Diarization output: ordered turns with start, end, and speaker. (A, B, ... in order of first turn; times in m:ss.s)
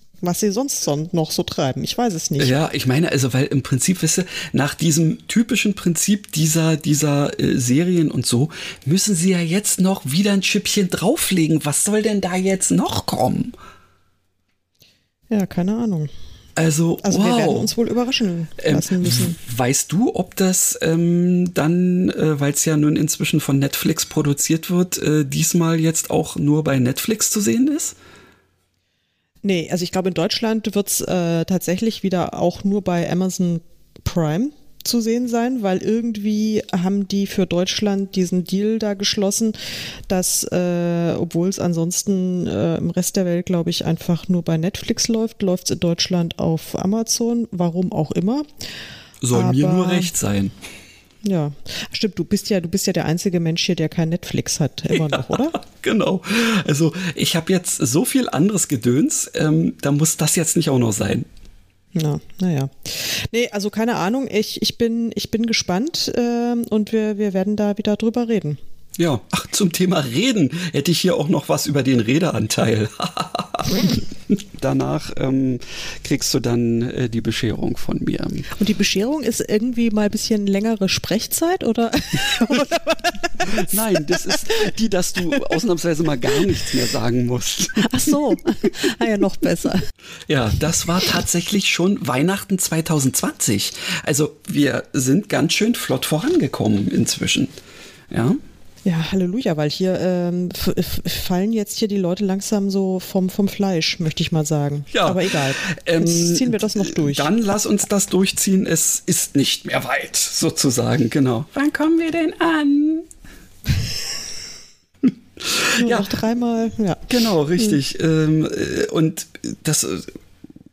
0:00.2-0:02.5 A
0:02.4-0:13.6 B
0:15.3-0:16.1 A
0:16.6-0:17.7 B
0:17.0-0:19.4 A
0:18.6-0:28.0 B
0:29.4-0:39.6 A
0:40.1-0:48.5 A
0:49.2-0:50.6 B
0:49.3-0:50.1 A
0:51.2-0:55.6 A
0:54.9-1:01.3 B
1:02.0-1:08.6 A
1:09.0-1:18.5 B
1:18.6-1:24.5 A
1:23.5-1:28.1 B
1:27.8-1:29.8 A
1:30.3-1:37.5 B
1:38.1-1:38.4 B
1:38.8-1:47.3 A
1:44.9-1:53.1 B
1:55.0-1:56.1 B
1:55.8-1:57.0 A
1:57.1-2:00.2 B